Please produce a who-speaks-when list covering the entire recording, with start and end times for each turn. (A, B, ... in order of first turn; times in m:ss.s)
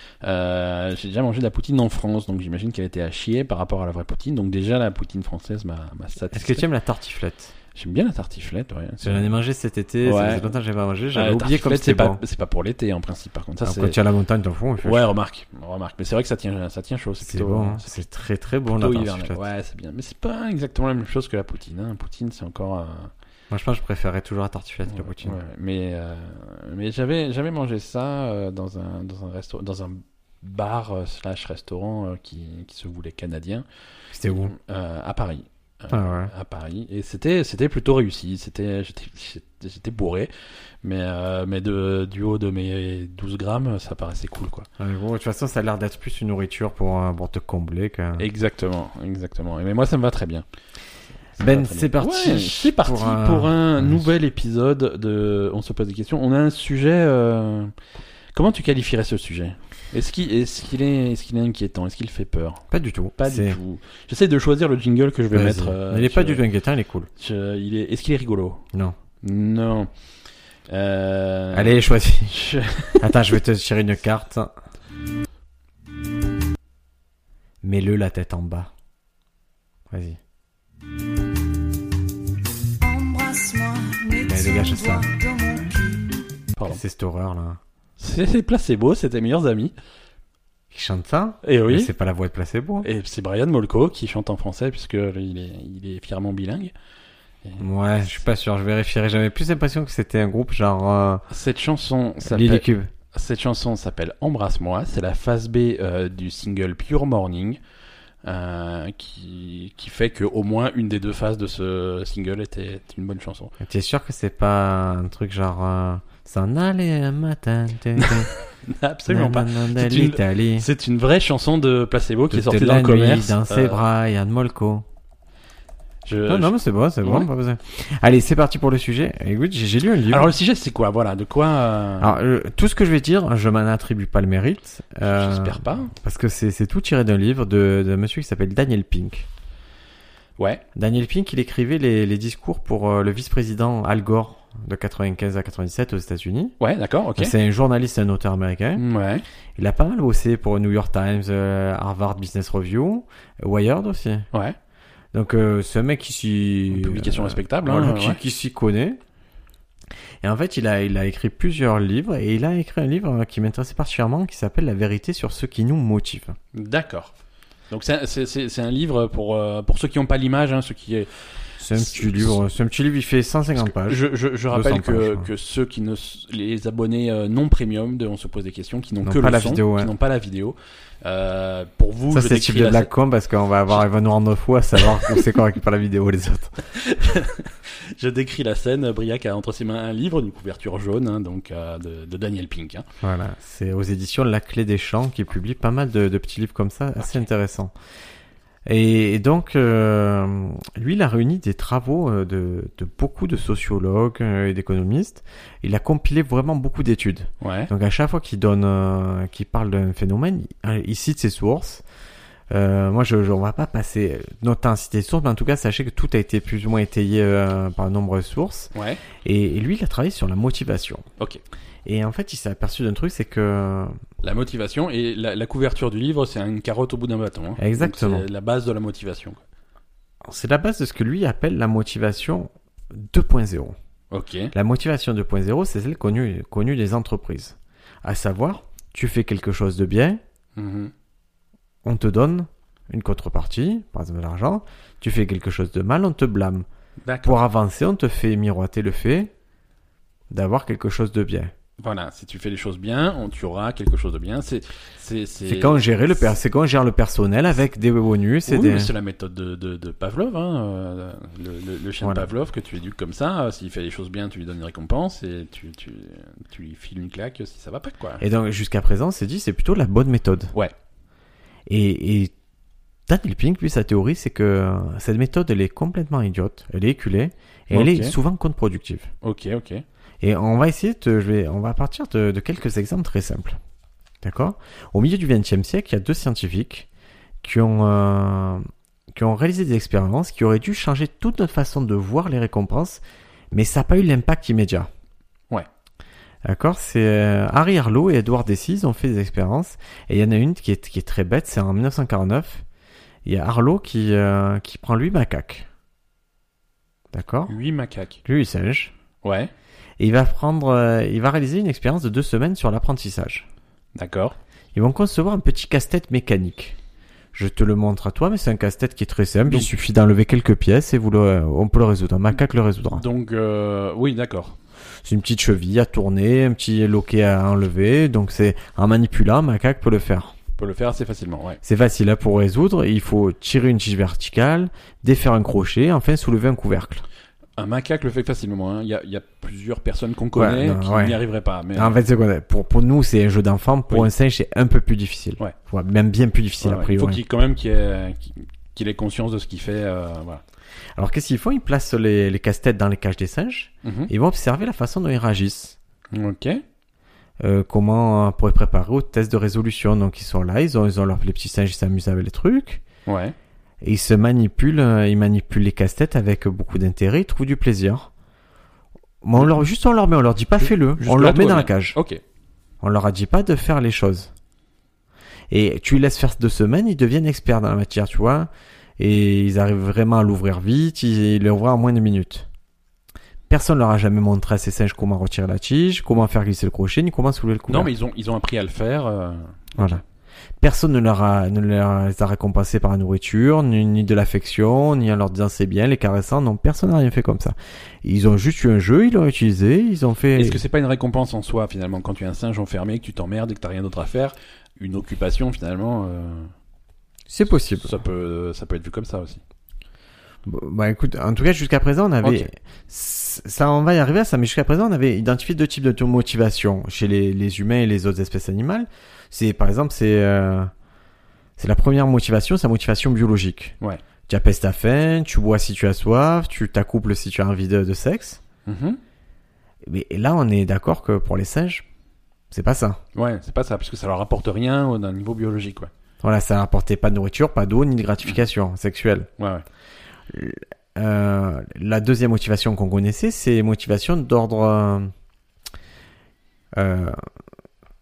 0:00.2-0:06.6 A
0:06.3-0:07.5 B
0:07.7-0:09.3 A
0:09.0-0:12.2 B
0:10.0-0:10.5 A
0:11.1-0:14.0 A
0:13.6-0:15.1 B
0:14.8-0:18.0 A
0:17.2-0:19.4 B
0:18.7-0:23.1 A
0:23.5-0:25.4 B
0:24.8-0:33.6 A
0:34.1-0:34.5 B
0:34.5-0:40.3 A
0:35.9-0:36.3 B
0:40.8-0:44.7 A
0:44.8-0:48.2 B
0:48.2-0:50.4 A
0:51.4-0:57.7 A
0:51.4-0:54.0 B
0:58.3-1:02.6 A
1:02.7-1:03.6 B
1:03.2-1:06.4 A
1:05.3-1:07.1 B
1:07.2-1:08.6 A
1:09.2-1:09.9 A
1:10.7-1:13.1 A
1:11.5-1:12.4 B
1:13.0-1:14.5 B
1:17.6-1:18.7 B
1:19.9-1:20.2 B
1:22.8-1:26.1 C
1:24.2-1:25.1 B
1:26.6-1:26.8 A
1:26.6-1:27.6 B
1:28.0-1:29.7 A
1:30.7-1:32.9 B
1:31.4-1:31.9 A
1:32.8-1:36.7 A
1:37.6-1:41.2 B
1:41.3-1:47.6 A
1:42.2-1:42.9 B
1:48.2-1:53.5 A
1:53.6-1:58.3 B
1:58.0-2:03.8 A
1:59.1-2:00.6 B
2:02.3-2:04.8 B
2:06.0-2:07.3 A
2:06.3-2:10.3 B
2:10.1-2:12.2 A
2:12.0-2:19.3 B
2:15.0-2:15.9 A
2:20.4-2:20.6 A
2:20.7-2:26.5 B
2:26.6-2:27.3 A
2:27.2-2:28.8 B
2:28.8-2:29.2 A
2:29.6-2:34.3 B
2:35.1-2:39.0 B
2:36.7-2:38.2 A
2:40.2-2:46.4 B
2:46.5-2:47.1 A
2:47.7-2:51.1 A
2:51.6-2:55.3 B
2:51.7-2:52.4 A
2:53.6-3:02.9 A
2:59.0-2:59.9 B
3:02.1-3:06.5 B
3:04.8-3:05.2 A
3:06.7-3:12.8 A
3:13.0-3:17.7 B
3:18.7-3:31.8 B
3:27.4-3:27.7 A
3:32.5-3:38.7 B
3:38.7-3:39.0 A
3:39.2-3:41.0 B
3:41.8-3:44.0 B
3:44.2-3:49.4 A
3:47.6-3:48.2 B
3:50.2-3:53.7 B
3:54.1-3:54.5 A
3:54.5-4:00.2 B
4:00.6-4:00.9 A
4:01.8-4:06.6 B
4:07.0-4:07.4 A
4:07.2-4:09.3 B
4:10.3-4:11.5 B
4:11.8-4:15.9 A
4:15.4-4:18.9 B
4:18.4-4:28.2 A
4:22.0-4:22.3 B
4:28.2-4:30.5 B
4:31.7-4:32.3 B
4:33.1-4:39.1 B
4:37.7-4:38.1 A
4:39.2-4:39.8 A
4:40.2-4:43.6 B
4:44.2-4:46.9 B
4:47.4-4:54.9 B
4:56.4-5:02.6 B
5:03.2-5:05.7 B
5:07.1-5:07.5 B
5:07.5-5:08.2 A
5:08.2-5:08.9 B
5:09.2-5:09.5 A
5:10.0-5:13.4 B
5:13.9-5:14.4 A
5:14.7-5:16.8 B
5:17.3-5:23.0 B
5:19.5-5:19.7 A
5:22.9-5:24.6 A
5:25.0-5:30.3 B
5:30.6-5:31.6 A
5:31.6-5:37.0 B
5:37.6-5:42.0 A
5:40.3-5:41.2 B
5:41.7-5:47.2 B
5:46.6-5:50.4 A
5:51.0-5:55.8 B
5:53.8-5:54.1 A
5:56.1-5:56.6 A
5:57.4-6:02.8 B
6:03.1-6:03.3 A
6:03.8-6:08.1 B
6:09.2-6:12.0 B
6:10.6-6:12.2 A
6:12.8-6:14.3 B
6:15.5-6:22.5 B
6:23.5-6:27.9 B
6:27.7-6:30.0 A
6:30.6-6:40.6 B
6:40.3-6:46.5 A
6:47.3-6:47.9 B
6:47.8-6:49.4 A
6:50.4-7:00.7 B
6:52.2-6:52.5 A
7:01.6-7:03.7 B
7:04.3-7:08.4 B
7:08.6-7:09.0 A
7:09.8-7:11.8 B
7:12.5-7:13.0 B
7:13.1-7:15.9 A
7:16.2-7:19.3 B
7:19.4-7:19.6 A
7:20.3-7:25.1 B
7:26.7-7:27.1 B